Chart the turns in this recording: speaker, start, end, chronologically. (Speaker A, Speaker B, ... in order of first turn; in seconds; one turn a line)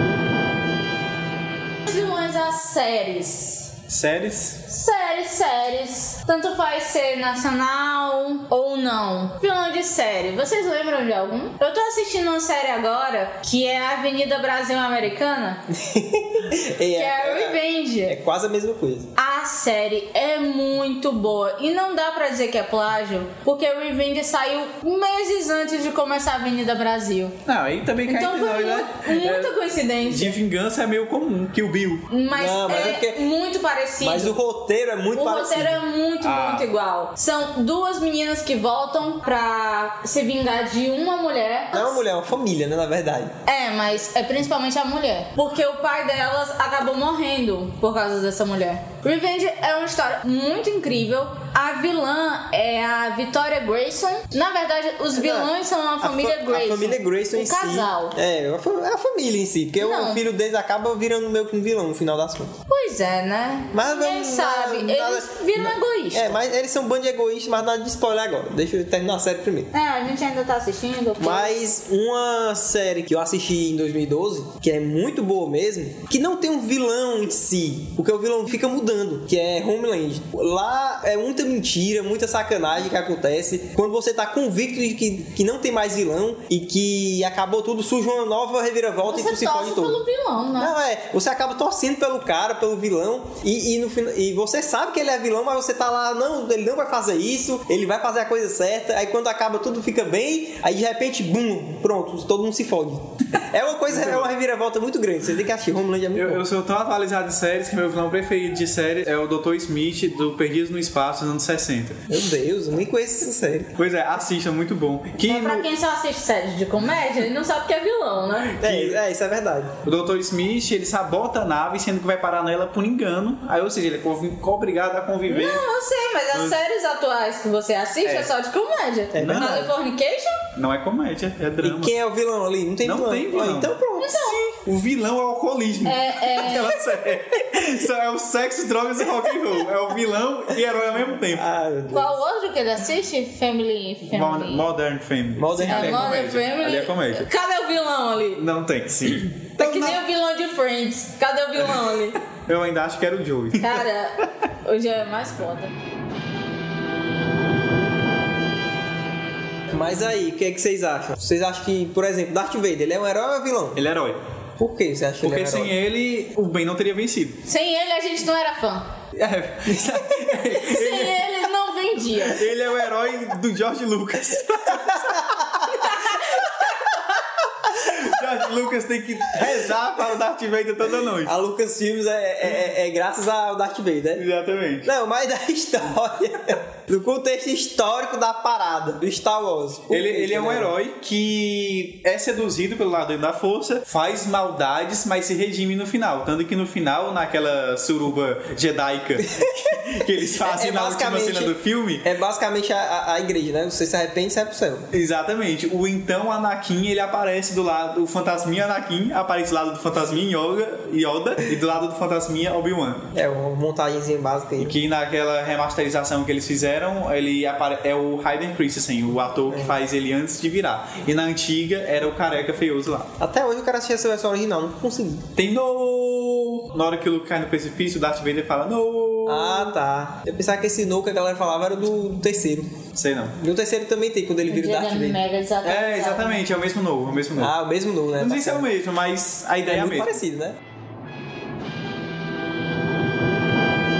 Speaker A: 1.8-3.7
Speaker B: 3.9-4.6
Speaker A: 4.7-15.6
Speaker C: 15.7-19.1
Speaker A: 16.9-18.1
Speaker A: 19.1-27.4
Speaker B: 27.4-29.5
Speaker A: 28.1-30.4
Speaker B: 30.1-32.1
Speaker A: 32.1-34.4
Speaker C: 32.3-33.2
Speaker C: 34.0-35.8
Speaker A: 35.1-42.0
Speaker B: 36.2-36.7
Speaker C: 41.7-43.3
Speaker A: 43.5-58.1
Speaker C: 55.1-62.5
Speaker A: 59.8-60.2
Speaker A: 62.7-66.4
Speaker C: 63.7-69.7
Speaker A: 69.7-71.6
Speaker C: 71.2-90.0
Speaker A: 89.1-90.7
Speaker C: 90.5-106.4
Speaker B: 103.9-104.3
Speaker B: 106.1-112.0
Speaker C: 112.1-113.7
Speaker B: 113.8-115.7
Speaker A: 115.2-118.6
Speaker B: 118.5-119.0
Speaker C: 118.6-119.7
Speaker B: 119.8-125.6
Speaker A: 125.3-130.4
Speaker B: 128.0-128.3
Speaker C: 129.1-129.7
Speaker B: 129.2-129.7
Speaker B: 130.6-131.9
Speaker C: 131.6-134.2
Speaker B: 132.8-141.4
Speaker A: 134.0-134.4
Speaker A: 135.8-136.8
Speaker C: 141.3-142.1
Speaker A: 141.9-144.6
Speaker B: 144.1-147.3
Speaker C: 145.4-146.2
Speaker A: 145.6-148.4
Speaker B: 148.3-150.0
Speaker A: 149.6-152.2
Speaker B: 152.4-153.8
Speaker A: 153.6-155.7
Speaker C: 159.7-163.8
Speaker B: 163.8-164.2
Speaker C: 164.6-165.7
Speaker B: 165.2-167.4
Speaker A: 167.4-168.9
Speaker B: 169.1-171.3
Speaker A: 170.5-172.4
Speaker B: 172.2-181.3
Speaker C: 174.7-175.7
Speaker A: 175.8-176.5
Speaker C: 181.2-184.2
Speaker B: 184.2-184.9
Speaker C: 184.8-190.7
Speaker B: 189.9-202.1
Speaker C: 199.3-204.9
Speaker B: 204.9-213.1
Speaker C: 213.1-214.8
Speaker B: 214.6-223.1
Speaker C: 219.5-219.8
Speaker C: 223.2-225.2
Speaker B: 225.3-229.8
Speaker C: 229.2-232.8
Speaker B: 232.9-233.4
Speaker C: 233.4-235.2
Speaker A: 234.5-236.4
Speaker B: 235.6-237.5
Speaker C: 237.4-238.7
Speaker B: 238.2-240.2
Speaker C: 239.6-240.6